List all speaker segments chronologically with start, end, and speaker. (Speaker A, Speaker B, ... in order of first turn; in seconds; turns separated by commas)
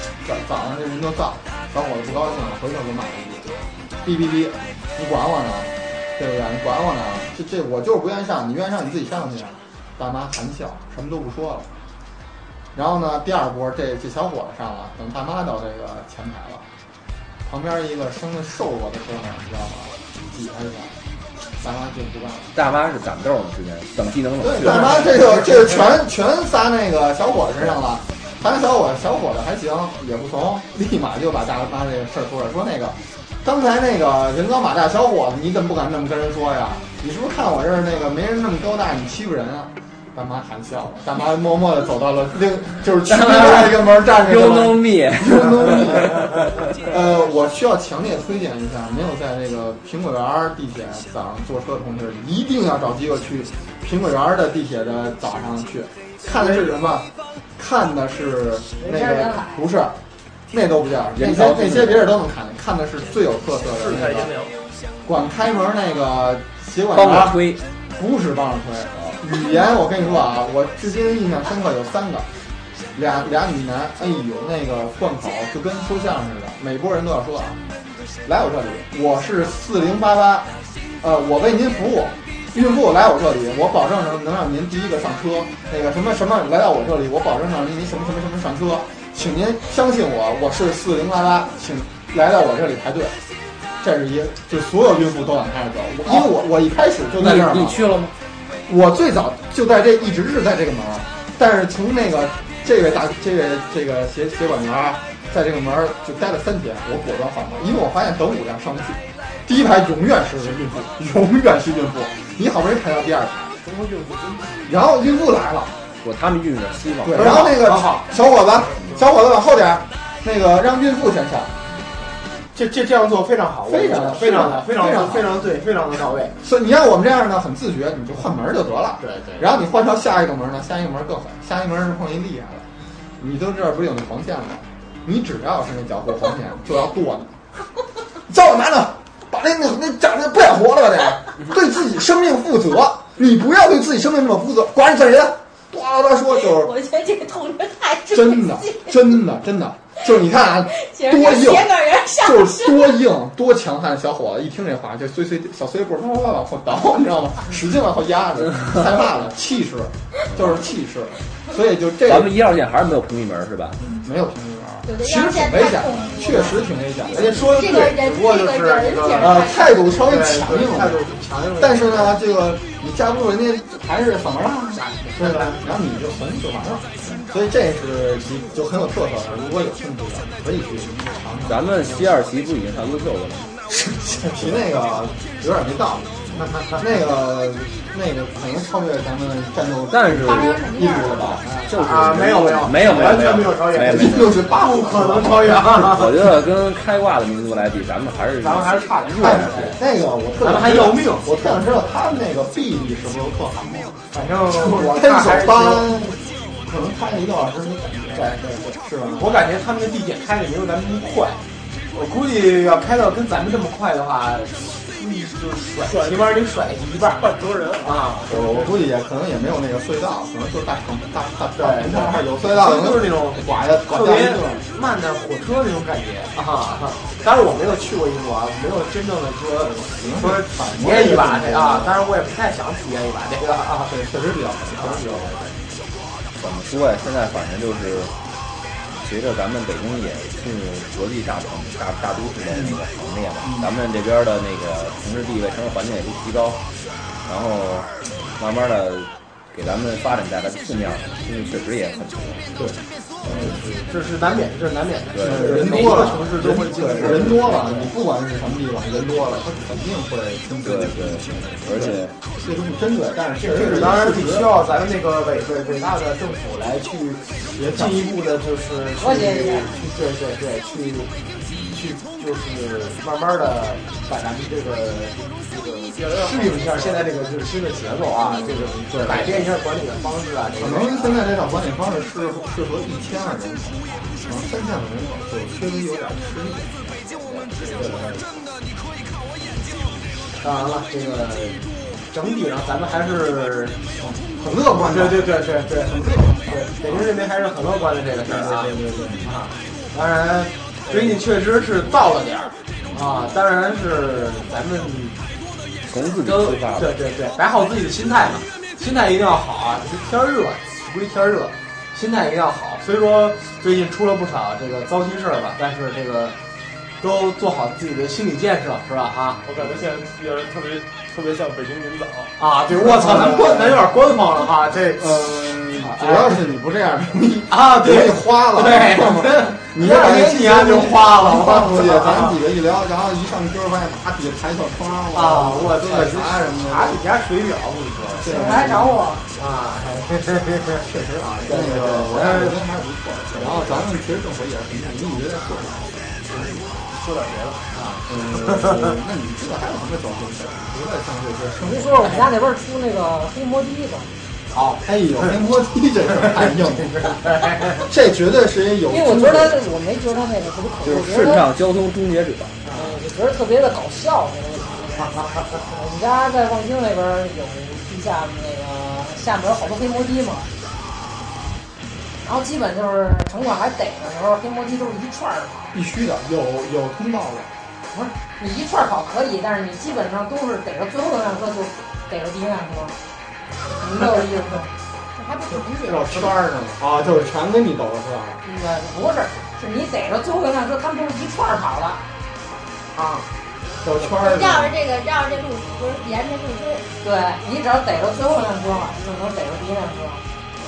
Speaker A: 0.2-11.7, Speaker A: 12.7-16.7, Speaker A: 17.4-20.9, Speaker A: 21.6-22.6, Speaker B: 22.5-25.2, Speaker A: 24.4-60.0, Speaker B: 43.0-46.5, Speaker C: 56.3-56.9, Speaker D: 58.8-59.7, Speaker A: 60.5-64.3, Speaker B: 61.1-62.2, Speaker E: 63.7-64.5, Speaker A: 65.0-67.4, Speaker B: 66.9-67.6, Speaker A: 67.9-72.3, Speaker A: 72.9-77.6, Speaker A: 78.2-93.2, Speaker A: 93.8-97.9, Speaker B: 97.2-98.1, Speaker A: 98.7-113.5, Speaker E: 113.6-114.6, Speaker A: 114.6-115.7, Speaker B: 116.0-117.5, Speaker A: 117.0-121.5, Speaker C: 117.1-118.2, Speaker C: 122.5-126.3, Speaker A: 123.7-125.3, Speaker A: 126.4-132.7, Speaker C: 129.0-129.5, Speaker A: 133.2-137.4, Speaker A: 138.3-146.7, Speaker F: 146.3-148.9, Speaker A: 148.1-162.3, Speaker F: 150.7-153.0, Speaker B: 162.0-163.8, Speaker A: 163.9-167.4, Speaker F: 164.8-166.7, Speaker C: 167.1-172.2, Speaker F: 167.4-169.9, Speaker A: 169.2-171.0, Speaker A: 171.6-181.7, Speaker C: 174.7-175.6, Speaker B: 181.5-183.5, Speaker A: 184.0-186.2, Speaker A: 186.7-191.4, Speaker B: 189.9-190.6, Speaker F: 190.2-191.4, Speaker B: 191.2-194.4, Speaker C: 191.4-196.2, Speaker A: 193.8-196.1, Speaker B: 195.8-199.8, Speaker C: 198.4-199.8, Speaker A: 199.2-203.9, Speaker C: 200.4-201.3, Speaker C: 204.1-206.1, Speaker A: 204.5-209.3, Speaker C: 208.1-211.4, Speaker C: 211.9-217.3, Speaker E: 215.8-216.4, Speaker E: 217.2-217.9, Speaker C: 217.8-218.5, Speaker A: 218.3-224.6, Speaker C: 221.6-233.9, Speaker A: 229.6-232.0, Speaker A: 233.8-235.3, Speaker C: 234.7-235.6, Speaker B: 236.3-238.1, Speaker B: 239.0-246.6, Speaker A: 242.5-242.8, Speaker A: 243.4-243.7, Speaker B: 247.2-252.4, Speaker A: 252.6-253.6, Speaker C: 253.2-257.9, Speaker B: 255.1-255.7, Speaker A: 255.2-264.5, Speaker B: 260.6-262.1, Speaker C: 263.4-281.5, Speaker A: 267.5-268.1, Speaker D: 269.0-269.8, Speaker E: 276.2-277.1, Speaker A: 278.2-279.5, Speaker A: 280.6-286.7, Speaker C: 287.2-288.2, Speaker C: 290.4-305.2, Speaker A: 294.0-297.1, Speaker A: 298.2-299.4, Speaker A: 300.9-301.2, Speaker B: 305.9-306.9, Speaker C: 306.2-316.4, Speaker C: 317.0-319.5, Speaker E: 319.4-322.3, Speaker C: 322.4-326.4, Speaker A: 322.7-323.8, Speaker A: 324.9-337.0, Speaker C: 327.5-332.4, Speaker C: 335.1-338.5, Speaker A: 338.1-339.0, Speaker D: 338.2-339.2, Speaker C: 339.4-340.8, Speaker A: 340.8-346.2, Speaker C: 341.4-342.6, Speaker C: 343.4-343.8, Speaker E: 346.3-347.7, Speaker C: 347.7-349.0, Speaker A: 348.1-352.1, Speaker D: 351.6-354.1, Speaker C: 354.5-355.3, Speaker A: 354.8-357.1, Speaker C: 356.2-357.9, Speaker A: 357.8-359.6, Speaker D: 358.9-361.4, Speaker B: 360.8-362.6, Speaker C: 362.6-363.0, Speaker D: 362.7-370.5, Speaker D: 372.2-375.7, Speaker A: 375.7-377.5, Speaker D: 377.9-383.0, Speaker D: 383.8-384.7, Speaker F: 385.1-386.4, Speaker A: 385.8-388.4, Speaker D: 388.4-392.0, Speaker C: 392.9-393.2, Speaker A: 393.8-394.7, Speaker F: 394.0-396.9, Speaker D: 397.0-400.2